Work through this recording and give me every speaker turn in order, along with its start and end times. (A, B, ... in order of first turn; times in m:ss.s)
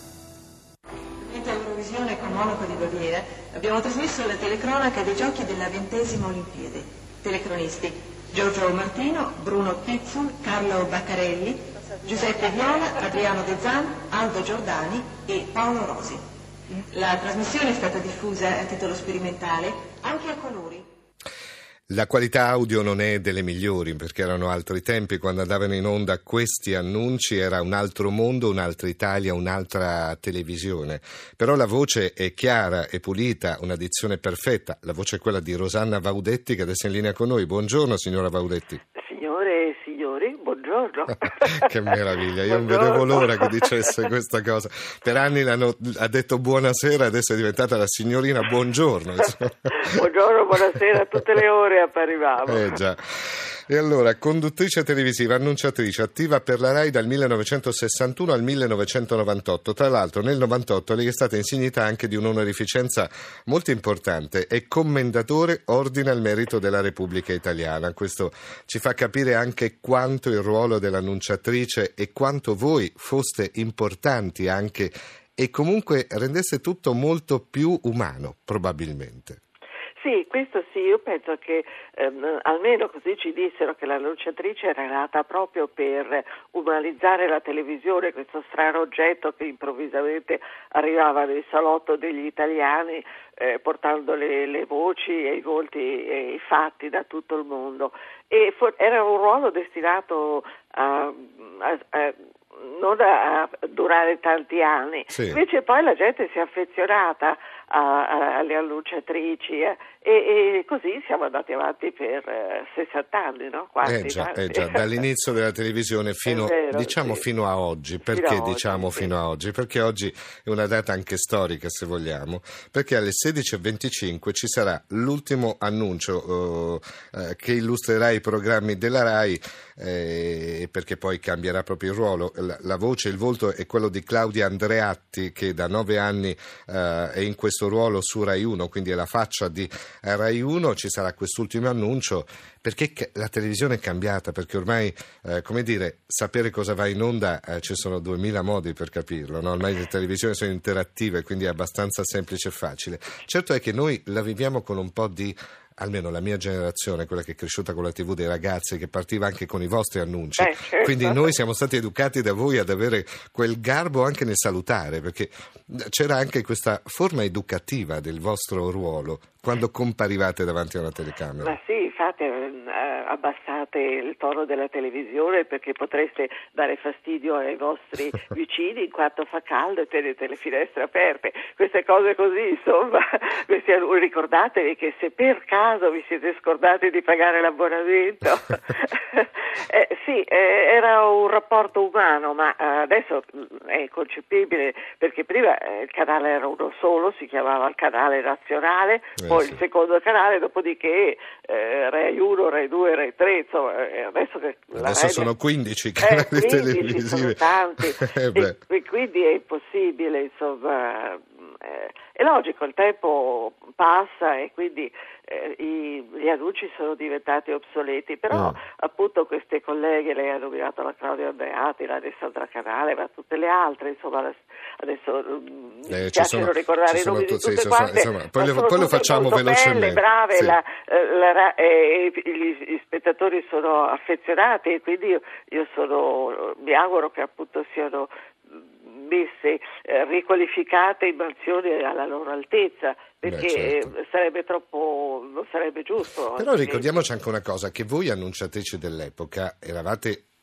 0:01.2-0:20.8 A
0:21.9-0:38.8 B
0:39.0-0:44.0 C
0:41.4-0:50.0 B
0:49.3-0:52.8 C
0:52.5-1:19.4 B
1:20.0-1:55.0 C
1:45.1-1:45.4 B
1:53.8-2:51.6 B
1:56.3-1:57.2 C
1:58.1-1:59.1 C
2:40.4-2:41.3 C
2:51.4-3:25.3 C
3:19.2-3:19.6 B
3:24.8-3:28.6 B
3:26.0-4:07.1 C
3:38.3-3:38.6 B
3:45.9-3:50.6 B
4:03.2-4:03.9 B
4:06.4-4:10.2 B